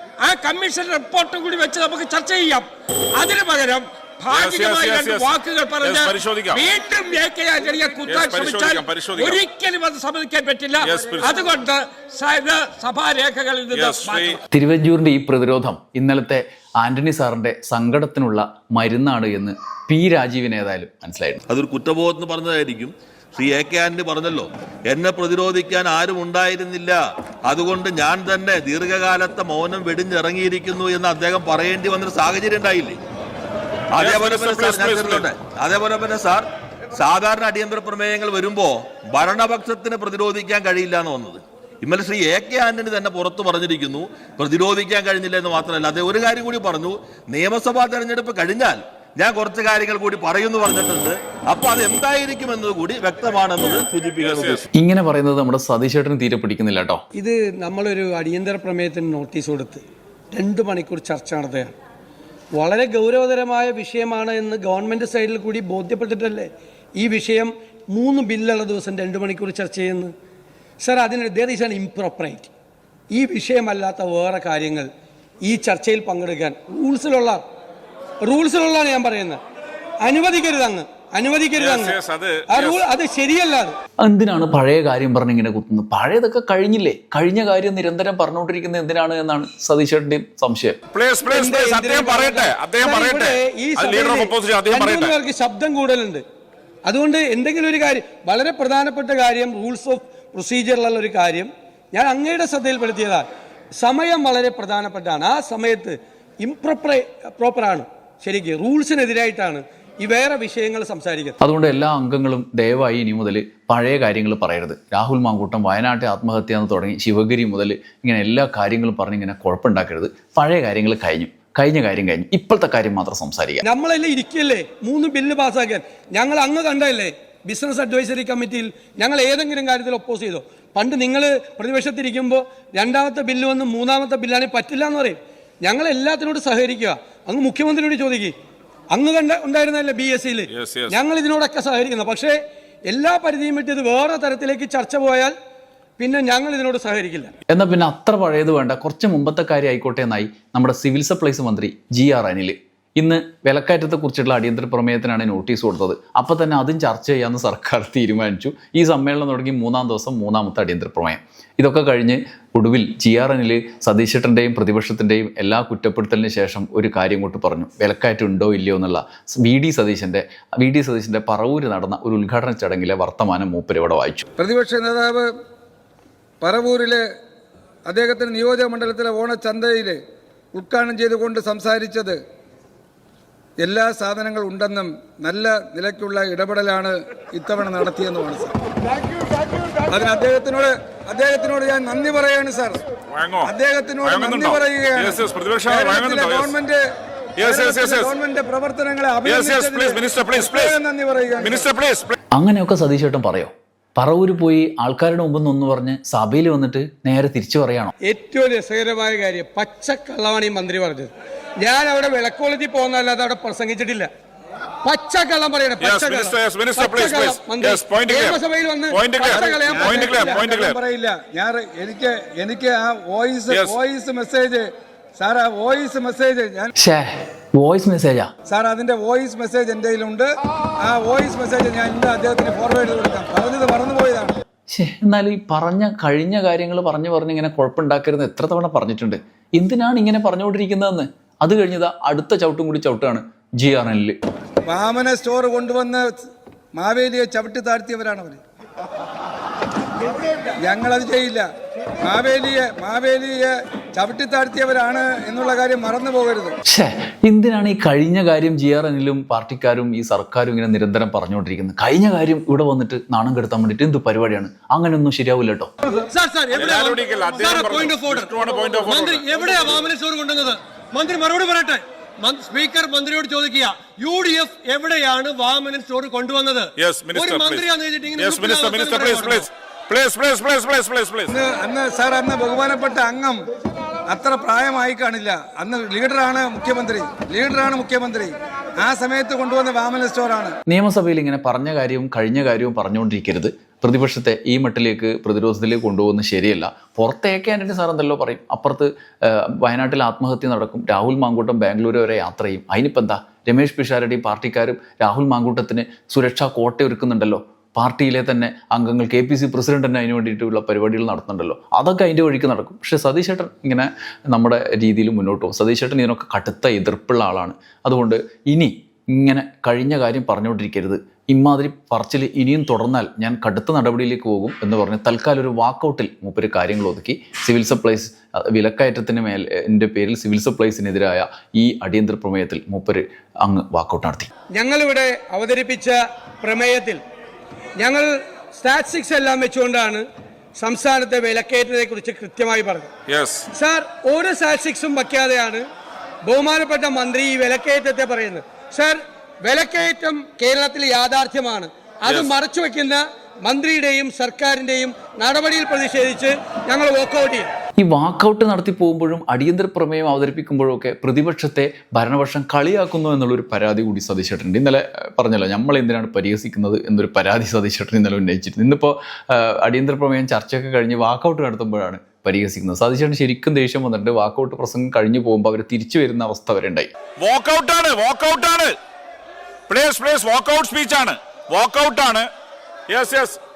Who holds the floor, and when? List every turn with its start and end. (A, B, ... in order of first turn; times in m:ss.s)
0:00.2-0:14.4 A
0:04.3-0:06.6 B
0:08.1-0:09.4 B
0:10.8-0:11.3 B
0:13.7-0:14.4 B
0:14.5-0:21.4 C
0:21.5-0:33.0 D
0:33.9-0:54.6 D
0:34.0-0:35.3 B
0:54.2-0:54.6 B
0:54.8-0:57.0 C
0:57.2-1:01.8 E
1:02.6-1:10.1 E
1:10.8-1:12.5 E
1:13.1-1:14.9 E
1:15.4-1:17.4 E
1:18.2-1:19.4 E
1:20.0-1:22.0 E
1:21.6-1:22.8 B
1:22.5-1:23.8 E
1:24.0-1:30.8 C
1:30.9-1:35.2 B
1:31.3-1:36.2 E
1:36.9-1:43.3 E
1:43.8-1:51.4 E
1:51.4-2:03.6 C
2:03.6-2:18.3 E
2:18.9-2:22.4 E
2:20.5-2:21.0 B
2:22.9-2:25.3 E
2:26.0-2:27.3 E
2:27.5-2:54.2 C
2:54.4-2:55.3 F
2:56.4-2:57.1 F
2:57.9-3:00.0 F
3:00.5-3:02.2 F
3:03.6-3:08.6 F
3:09.9-3:12.8 F
3:13.1-3:13.5 B
3:13.4-3:16.8 F
3:14.0-3:16.5 B
3:17.4-3:18.1 B
3:17.4-3:21.7 F
3:19.2-3:20.8 B
3:21.4-3:22.2 B
3:22.4-3:27.9 C
3:28.1-3:34.1 E
3:34.8-3:40.4 E
3:35.8-3:38.4 B
3:38.9-3:40.8 B
3:39.4-3:46.7 F
3:43.5-3:43.8 B
3:46.8-3:48.3 C
3:48.5-3:54.4 F
3:54.7-4:04.2 C
4:04.7-4:06.2 F
4:06.7-4:08.4 F
4:10.6-4:11.5 F
4:12.0-4:16.6 F
4:16.7-4:25.7 C
4:26.1-4:39.4 G
4:26.5-4:29.8 B
4:27.4-4:27.7 E
4:28.9-4:29.9 E
4:33.4-4:34.0 E
4:34.5-4:35.3 E
4:36.8-4:41.3 B
4:37.4-4:38.6 E
4:41.3-4:43.4 F
4:44.1-4:50.6 F
4:50.7-5:34.3 C
5:34.6-5:37.0 E
5:37.8-5:40.0 E
5:40.6-5:42.9 E
5:43.1-5:43.5 B
5:43.5-5:45.6 E
5:46.3-5:57.5 E
5:57.8-6:16.9 C
6:17.2-6:18.8 B
6:19.7-6:22.3 B
6:22.9-6:23.4 B